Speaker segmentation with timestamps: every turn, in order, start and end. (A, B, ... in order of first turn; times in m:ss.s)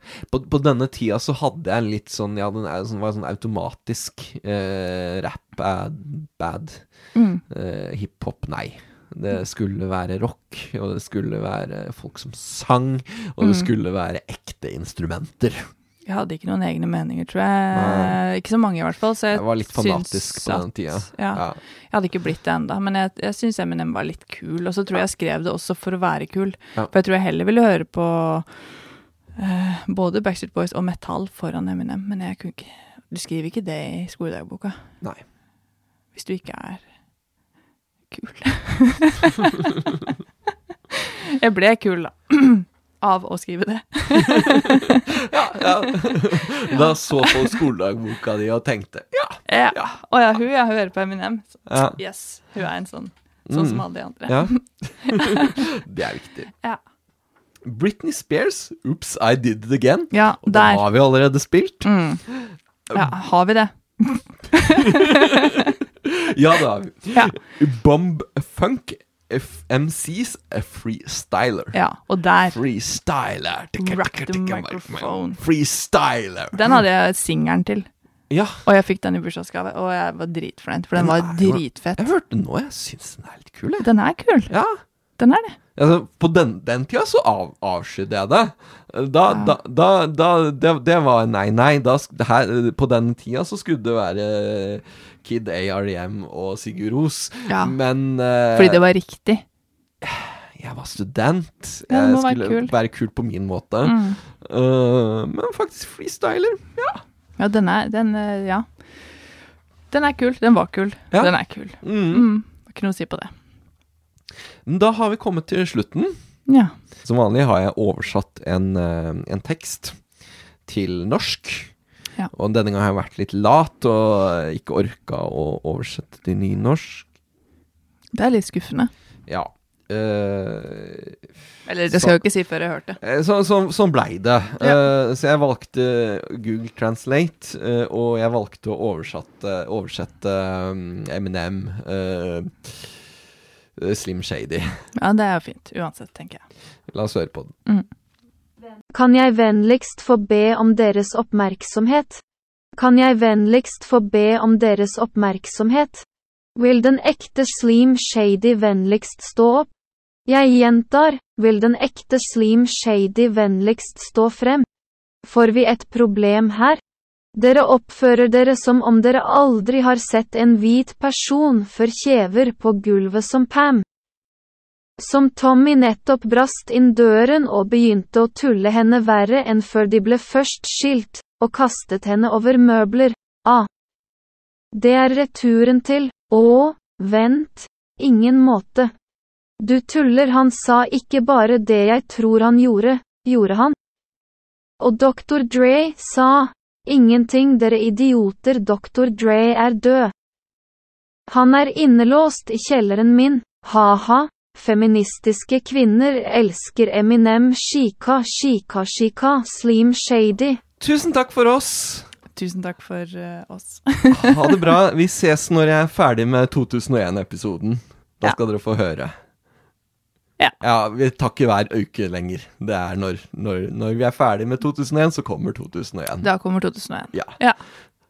0:00.3-0:06.8 A
0:07.1-0:07.4 B
0:07.5-0:15.7 A
0:13.4-0:13.7 B
0:16.0-0:28.8 B
0:17.7-0:18.2 A
0:19.3-0:21.6 A
0:29.4-0:34.8 B
0:36.1-0:36.9 B
0:38.1-0:39.6 B
0:41.3-0:45.0 B
0:44.3-0:44.7 A
0:45.2-0:49.9 A
0:45.6-0:47.6 B
0:49.4-0:55.5 B
0:51.7-0:52.0 A
0:53.5-0:56.5 A
0:57.7-1:03.1 A
1:00.1-1:00.9 B
1:01.8-1:02.3 B
1:02.9-1:05.5 B
1:06.0-1:11.8 A
1:11.7-1:12.6 B
1:12.5-1:16.8 A
1:13.8-1:15.4 B
1:16.5-1:17.9 B
1:18.3-1:18.6 A
1:18.6-1:22.1 B
1:21.0-1:23.9 A
1:23.8-1:24.5 B
1:24.5-1:24.8 A
1:25.2-1:25.6 B
1:25.8-1:38.8 A
1:29.3-1:29.6 B
1:37.5-1:37.8 B
1:38.5-1:39.4 B
1:40.0-1:47.0 A
1:41.9-1:42.7 B
1:43.8-1:44.2 B
1:47.4-1:48.9 B
1:49.9-1:53.3 B
1:51.1-1:52.3 A
1:54.7-1:56.2 A
1:56.5-1:56.7 B
1:57.0-2:00.0 A
2:00.7-2:01.7 A
2:02.3-2:07.1 A
2:08.1-2:08.9 B
2:09.3-2:11.2 A
2:11.7-2:13.0 B
2:11.9-2:12.2 A
2:13.0-2:23.0 A
2:23.8-2:24.8 A
2:25.0-2:26.4 B
2:26.9-2:27.5 A
2:28.9-2:32.2 C
2:32.8-2:36.0 C
2:36.6-2:39.7 C
2:40.3-2:44.7 C
2:45.2-2:46.8 C
2:47.3-2:53.8 C
2:55.0-3:03.7 C
3:04.7-3:08.9 C
3:09.6-3:13.8 C
3:14.8-3:20.1 C
3:21.3-3:30.6 C
3:30.8-3:32.1 A
3:32.3-3:34.7 B
3:34.1-3:39.2 A
3:40.6-3:46.3 A
3:46.2-3:47.6 B
3:47.1-3:47.4 A